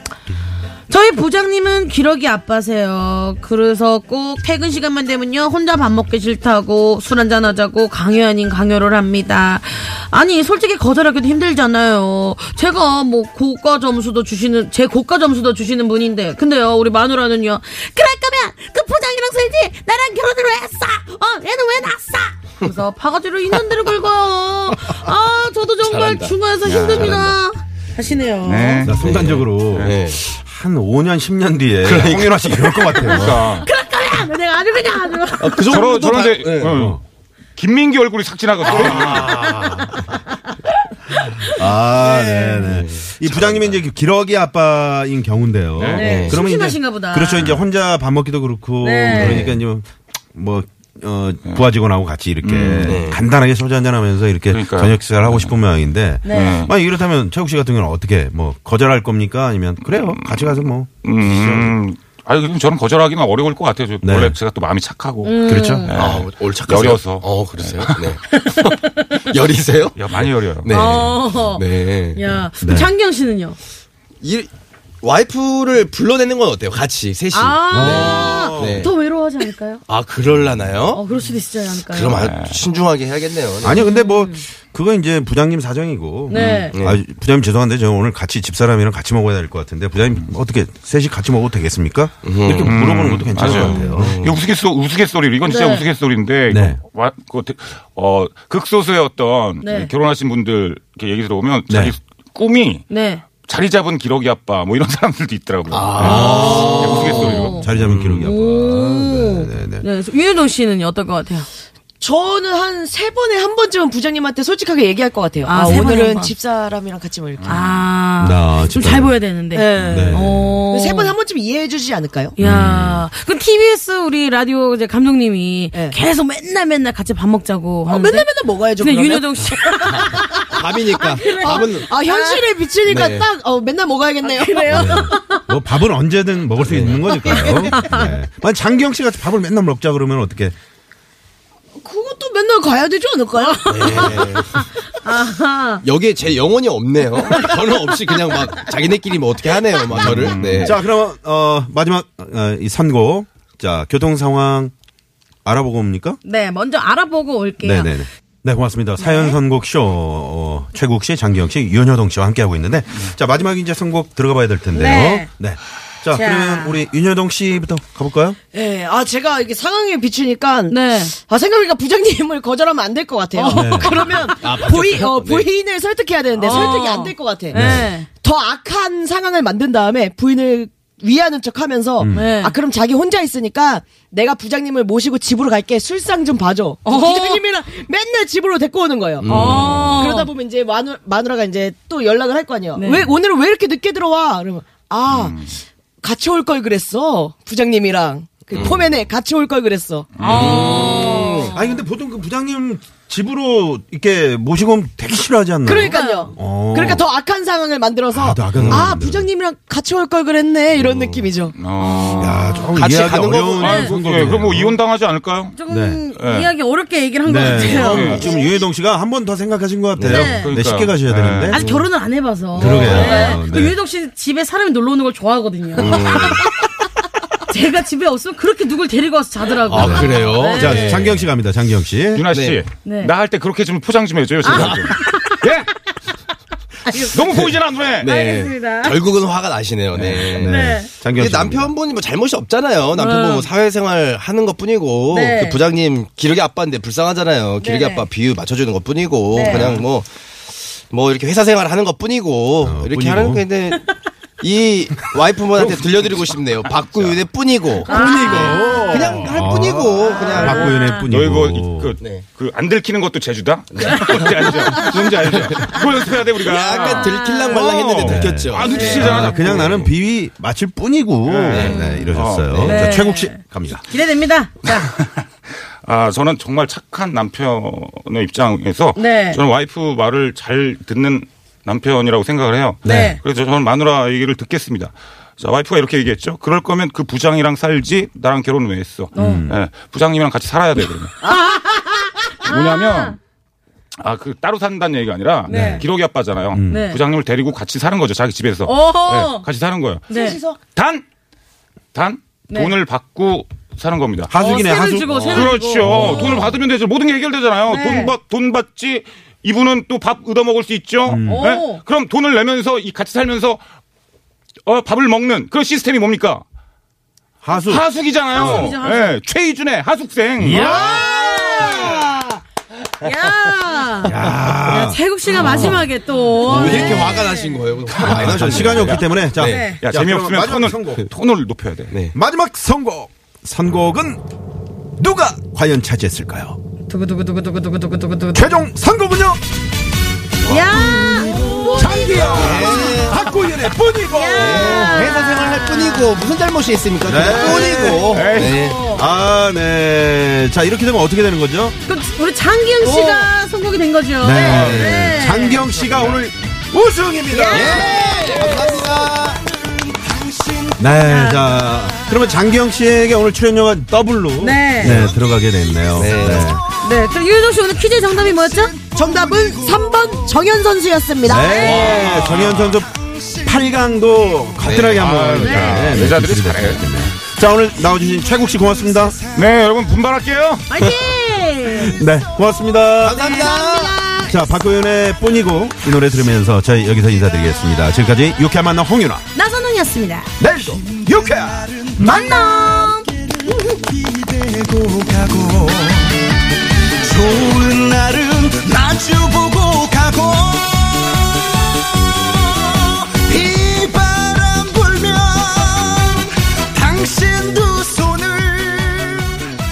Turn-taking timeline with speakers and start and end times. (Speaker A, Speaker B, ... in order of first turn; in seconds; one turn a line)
Speaker A: 0.9-28.9
Speaker B: 25.8-26.4
Speaker C: 26.6-27.2
Speaker B: 26.9-27.4
Speaker C: 28.4-29.1
Speaker D: 28.8-33.4
Speaker B: 29.0-30.2
Speaker C: 29.7-30.0
Speaker B: 31.8-33.1
Speaker A: 32.9-35.8
Speaker C: 33.0-33.7
Speaker B: 35.4-36.8
Speaker C: 35.6-37.0
Speaker D: 36.6-37.0
Speaker C: 37.5-39.5
Speaker D: 38.7-39.8
Speaker A: 39.0-40.5
Speaker A: 41.1-42.7
Speaker D: 41.5-61.8
Speaker B: 42.6-43.8
Speaker C: 45.8-46.0
Speaker B: 45.9-46.4
Speaker A: 46.0-47.5
Speaker A: 48.8-49.5
Speaker B: 49.1-49.5
Speaker C: 52.4-53.0
Speaker B: 52.6-53.2
Speaker C: 54.5-55.6
Speaker A: 56.2-56.6
Speaker C: 56.3-56.7
Speaker C: 59.9-68.0
Speaker D: 64.0-64.4
Speaker A: 65.2-66.0
Speaker D: 65.5-65.9
Speaker B: 65.9-72.3
Speaker A: 68.4-68.8
Speaker C: 70.0-71.0
Speaker A: 70.7-73.6
Speaker D: 72.6-72.9
Speaker B: 74.2-74.5
Speaker B: 75.0-78.9
Speaker A: 77.3-79.8
Speaker D: 77.7-78.9
Speaker B: 79.9-81.0
Speaker A: 80.9-82.2
Speaker B: 81.8-83.8
Speaker C: 82.1-82.6
Speaker D: 83.6-94.2
Speaker A: 83.7-84.4
Speaker A: 86.3-86.8
Speaker C: 86.3-86.7
Speaker B: 86.6-87.0
Speaker B: 92.2-92.7
Speaker C: 92.6-107.6
Speaker A: 93.6-94.0
Speaker B: 93.6-94.4
Speaker A: 95.5-95.8
Speaker D: 96.5-96.8
Speaker A: 99.6-99.9
Speaker D: 101.7-102.0
Speaker A: 102.9-103.2
Speaker B: 105.7-108.3
Speaker A: 106.0-107.7
Speaker D: 106.0-109.9
Speaker A: 108.2-111.5
Speaker E: 112.0-117.6
Speaker A: 115.4-116.3
Speaker C: 117.4-117.6
Speaker A: 117.4-121.1
Speaker D: 118.2-119.2
Speaker E: 119.5-122.4
Speaker D: 119.8-120.6
Speaker A: 122.4-132.5
Speaker D: 122.4-123.0
Speaker E: 127.9-129.3
Speaker B: 130.5-131.8
Speaker E: 131.2-134.9
Speaker B: 132.9-133.3
Speaker A: 134.2-135.4
Speaker D: 134.7-140.6
Speaker B: 136.6-137.1
Speaker A: 137.1-138.1
Speaker E: 137.2-137.6
Speaker E: 141.8-144.4
Speaker A: 143.4-145.8
Speaker B: 143.7-144.6
Speaker B: 145.8-150.8
Speaker C: 149.9-150.8
Speaker D: 149.9-154.7
Speaker D: 155.4-156.2
Speaker A: 156.2-157.9
Speaker D: 157.6-168.4
Speaker A: 159.0-159.4
Speaker A: 164.7-165.3
Speaker A: 166.1-166.8
Speaker E: 168.5-195.5
Speaker A: 170.7-171.1
Speaker A: 173.3-174.4
Speaker D: 173.5-174.0
Speaker B: 174.4-175.5
Speaker A: 176.3-178.1
Speaker D: 177.5-177.9
Speaker D: 182.0-182.3
Speaker A: 182.1-182.6
Speaker A: 186.8-187.4
Speaker B: 189.2-190.0
Speaker A: 189.2-190.3
Speaker A: 192.8-193.1
Speaker C: 195.1-195.5
Speaker E: 196.0-201.4
Speaker B: 198.5-199.0
Speaker C: 200.2-200.9
Speaker A: 200.2-201.6
Speaker B: 200.3-201.5
Speaker D: 201.5-207.0
Speaker E: 205.7-212.4
Speaker A: 205.8-206.3
Speaker D: 208.1-209.3
Speaker B: 208.6-208.8
Speaker B: 210.7-211.3
Speaker C: 211.6-212.7
Speaker D: 212.2-214.8
Speaker B: 212.7-213.7
Speaker C: 213.5-215.6
Speaker A: 213.6-213.9
Speaker A: 215.6-218.6
Speaker D: 215.7-216.0
Speaker C: 216.2-216.5
Speaker D: 217.2-221.6
Speaker E: 217.5-218.6
Speaker C: 217.8-218.3
Speaker B: 220.0-220.3
Speaker A: 220.1-220.5
Speaker C: 220.3-221.6
Speaker A: 221.5-226.4
Speaker B: 222.5-223.3
Speaker D: 222.6-223.8
Speaker B: 225.8-226.5
Speaker A: 227.5-231.1
Speaker B: 229.7-231.2
Speaker D: 229.7-232.3
Speaker C: 232.1-235.7
Speaker B: 232.3-232.6
Speaker A: 232.8-233.1
Speaker A: 234.4-235.4
Speaker B: 234.5-234.9
Speaker A: 236.8-237.5
Speaker C: 237.1-238.1
Speaker B: 238.0-250.1
Speaker A: 238.0-239.0
Speaker D: 239.9-241.7
Speaker A: 240.4-240.9
Speaker A: 242.9-243.5
Speaker A: 245.1-245.6
Speaker A: 247.6-248.1
Speaker A: 249.3-249.8
Speaker D: 249.5-249.8
Speaker B: 250.7-260.8
Speaker D: 252.6-253.4
Speaker D: 255.6-255.9
Speaker A: 257.8-259.3
Speaker D: 257.9-262.0
Speaker A: 260.1-261.1
Speaker C: 260.4-267.2
Speaker B: 263.8-264.4
Speaker A: 263.8-264.8
Speaker B: 266.3-269.9
Speaker A: 266.7-268.1
Speaker D: 267.9-273.8
Speaker C: 268.4-269.5
Speaker A: 268.6-269.4
Speaker C: 271.2-272.7
Speaker B: 271.5-271.9
Speaker A: 271.5-272.1
Speaker A: 272.6-274.9
Speaker C: 274.7-291.2
Speaker A: 278.9-279.4
Speaker D: 282.8-283.2
Speaker A: 282.9-283.2
Speaker A: 289.1-289.4
Speaker D: 289.1-289.6
Speaker A: 291.2-293.1
Speaker C: 292.4-293.2
Speaker C: 294.0-300.1
Speaker A: 295.4-295.9
Speaker D: 295.5-295.9
Speaker D: 296.5-296.9
Speaker A: 296.7-297.0
Speaker A: 298.6-299.4
Speaker A: 300.1-300.4
Speaker E: 300.1-300.6
Speaker C: 300.7-301.1
Speaker C: 301.9-304.6
Speaker D: 304.3-306.6
Speaker A: 304.4-306.5
Speaker C: 305.2-313.6
Speaker A: 307.7-308.1
Speaker D: 311.1-311.5
Speaker A: 311.2-311.8
Speaker C: 314.7-316.4
Speaker D: 317.4-318.7
Speaker C: 317.5-320.9
Speaker A: 318.3-319.1
Speaker D: 320.4-321.8
Speaker A: 320.5-322.3
Speaker A: 323.0-327.6
Speaker D: 324.0-325.4
Speaker B: 325.3-325.9
Speaker B: 326.4-329.7
Speaker C: 327.9-329.1
Speaker D: 328.0-331.1
Speaker A: 329.4-329.8
Speaker C: 329.8-332.0
Speaker B: 331.9-332.2
Speaker D: 332.1-334.2
Speaker D: 335.0-336.6
Speaker A: 336.9-338.6
Speaker D: 338.3-339.4
Speaker A: 340.4-346.2
Speaker B: 340.4-343.3
Speaker D: 341.7-345.2
Speaker B: 344.3-348.9
Speaker D: 347.0-351.8
Speaker C: 348.1-348.6
Speaker A: 348.3-349.1
Speaker A: 351.9-355.7
Speaker B: 352.8-353.3
Speaker D: 354.2-358.0
Speaker C: 354.4-355.1
Speaker C: 355.7-356.3
Speaker A: 357.3-358.9
Speaker B: 357.5-359.5
Speaker D: 360.8-366.6
Speaker A: 361.1-361.5
Speaker A: 364.4-365.1
Speaker B: 365.9-366.6
Speaker A: 366.8-368.8
Speaker E: 368.9-372.0
Speaker D: 371.2-379.2
Speaker A: 371.5-372.1
Speaker C: 371.9-372.7
Speaker B: 374.6-375.0
Speaker C: 375.0-377.1
Speaker A: 375.4-375.9
Speaker C: 379.3-380.7
Speaker A: 380.7-382.1
Speaker D: 381.7-383.4
Speaker B: 383.0-384.0
Speaker A: 383.1-384.6
Speaker D: 384.2-389.2
Speaker A: 389.4-390.3
Speaker D: 390.4-392.3
Speaker A: 392.0-393.1
Speaker F: 394.6-396.0
Speaker F: 397.1-401.0
Speaker F: 403.1-406.1
Speaker F: 406.8-409.2